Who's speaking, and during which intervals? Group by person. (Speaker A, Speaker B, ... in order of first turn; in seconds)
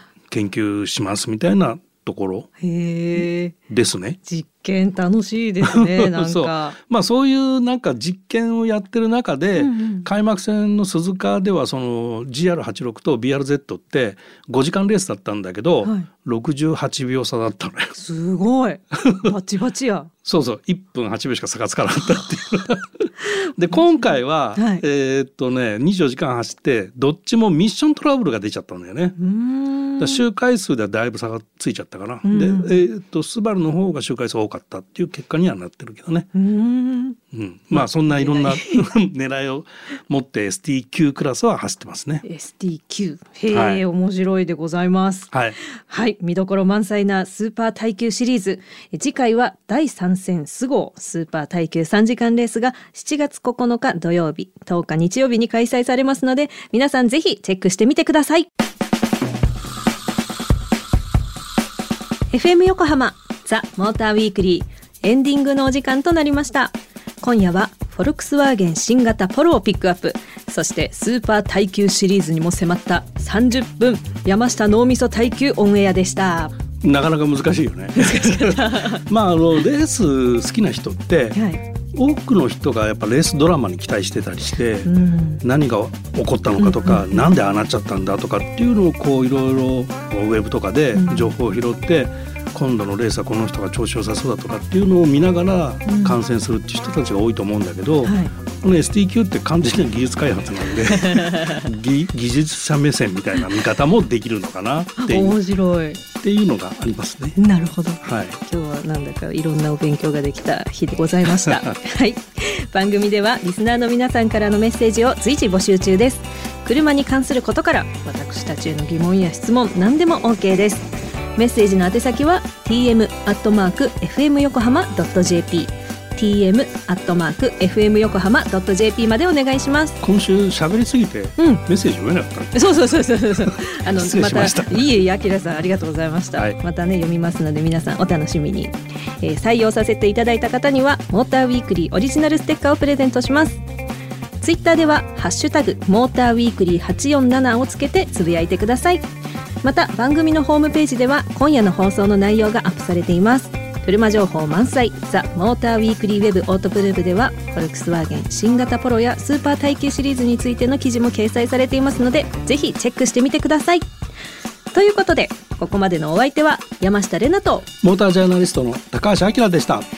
Speaker A: 0.3-2.5, 3.7-4.2, 5.6-17.9, 18.9-19.3, 20.2-29.2, 30.0-36.3, 37.3-42.2, 43.5-43.8, 45.3-45.6, 76.8-81.4, 81.9-84.9, 85.4-105.4, 106.2-107.4, 108.0-108.4, 111.2-111.8, 130.0-132.8, 133.4-135.0, 167.8-169.8
Speaker B: 2.6-3.5, 4.2-6.8, 9.6-10.1, 17.9-20.1, 23.7-24.8, 29.2-30.2, 32.2-32.8, 36.3-37.2, 37.7-38.9, 42.2-58.5, 62.3-76.5, 78.0-79.0, 81.3-81.6, 84.8-85.4, 86.6-87.3, 90.9-91.3, 95.8-96.2, 98.0-98.3, 100.9-101.6, 105.0-106.0, 107.4-130.0, 131.4-131.6, 132.5-143.6, 144.4-149.0, 149.6-163.9, 164.7-167.7